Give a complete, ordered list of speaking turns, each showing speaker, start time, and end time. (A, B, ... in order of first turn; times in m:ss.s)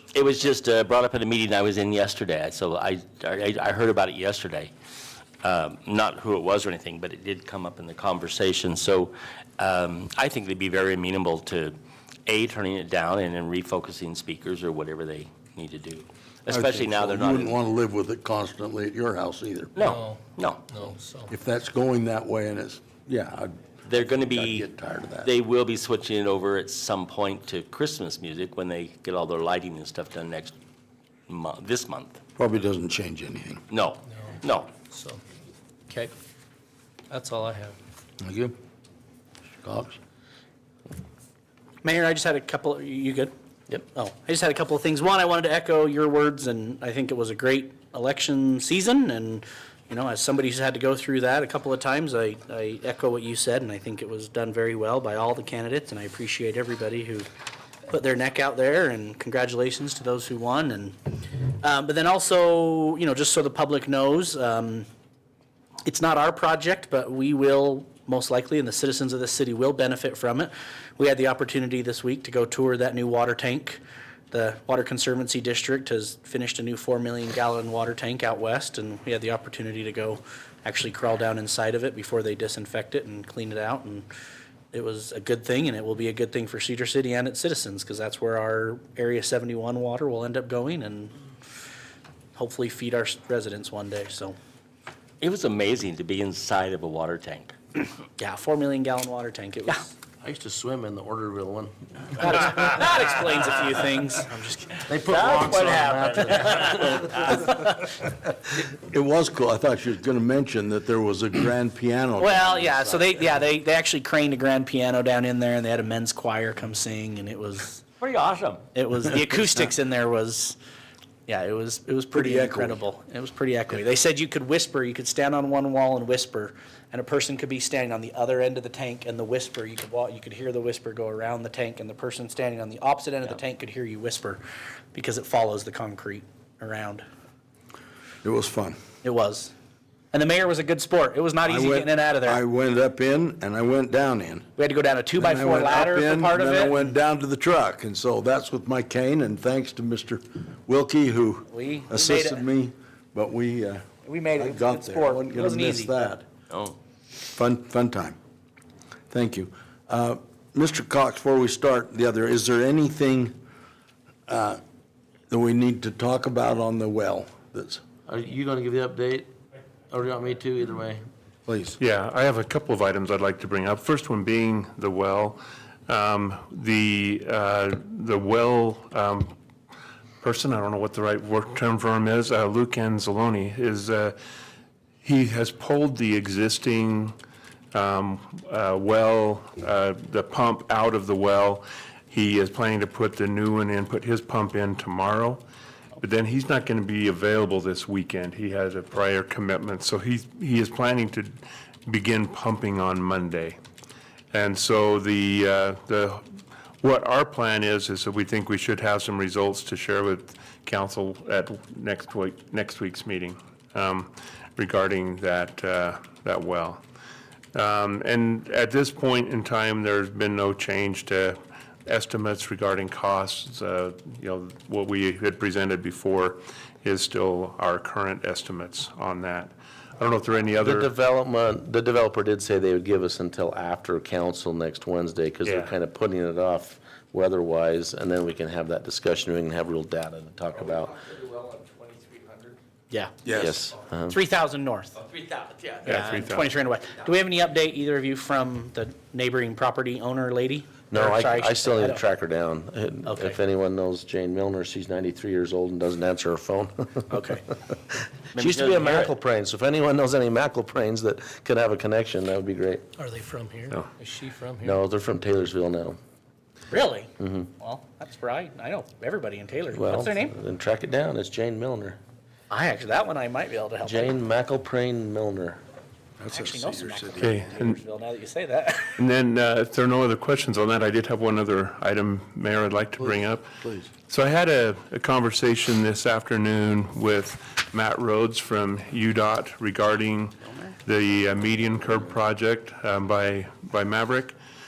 0:00.1-0:04.7 A
0:05.4-0:17.6 A
0:16.5-0:19.8 B
0:19.8-0:20.7 A
0:19.8-0:21.3 C
0:21.3-0:25.3 B
0:23.8-0:24.7 A
0:25.2-0:30.6 A
0:31.3-0:32.2 A
0:32.4-0:33.6 B
0:33.7-0:34.8 A
0:34.8-0:35.2 C
0:37.1-0:37.8 C
0:38.2-0:38.6 B
0:39.6-0:40.0 B
0:41.8-0:43.3 D
0:43.9-0:57.3 D
0:57.9-1:04.9 D
1:05.8-1:24.1 D
1:24.7-1:31.2 D
1:32.4-1:34.4 D
1:35.2-1:37.5 A
1:38.2-1:39.9 D
1:40.2-1:42.4 E
1:42.1-1:45.2 D
1:44.9-1:47.3 E
1:45.2-1:46.2 A
1:46.3-1:47.7 D
1:48.7-1:53.0 B
1:52.2-1:57.9 D
1:58.0-1:58.6 A
1:58.8-2:00.6 D
2:01.3-2:14.4 D
2:02.1-2:02.8 B
2:14.9-2:17.0 D
2:18.2-2:18.8 B
2:19.0-2:19.5 D
2:20.1-2:22.4 D
2:21.5-2:24.5 B
2:24.6-2:27.0 D
2:25.2-2:36.2 B
2:31.5-2:32.5 D
2:34.0-2:36.1 D
2:36.5-2:36.8 A
2:37.2-2:38.2 B
2:39.1-2:43.4 B
2:44.3-2:44.6 B
2:45.3-2:47.8 B
2:48.1-2:49.3 E
2:49.9-2:51.0 E
2:51.5-2:51.8 B
2:51.8-2:59.4 F
3:00.2-3:04.2 F
3:05.0-3:07.2 F
3:07.7-3:15.4 F
3:16.0-3:21.3 F
3:21.9-3:23.6 F
3:24.3-3:26.2 F
3:26.8-3:36.8 F
3:37.5-3:50.9 F
3:50.6-4:01.0 E
3:55.4-3:55.7 F
4:03.2-4:03.5 B
4:03.4-4:04.1 E
4:04.1-4:04.9 D
4:05.8-4:12.0 D
4:05.9-4:06.5 F
4:10.9-4:17.1 E
4:13.0-4:13.4 D
4:17.1-4:17.4 D
4:18.3-4:22.9 E
4:18.4-4:19.2 A
4:23.0-4:24.8 C
4:24.6-4:26.0 E
4:26.7-4:30.4 D
4:27.2-4:27.4 E
4:29.7-4:32.0 E
4:32.5-4:34.1 D
4:33.8-4:35.6 E
4:36.2-4:37.3 B
4:36.3-4:39.0 D
4:37.2-4:37.8 F
4:39.0-4:54.4 F
4:43.0-4:43.9 B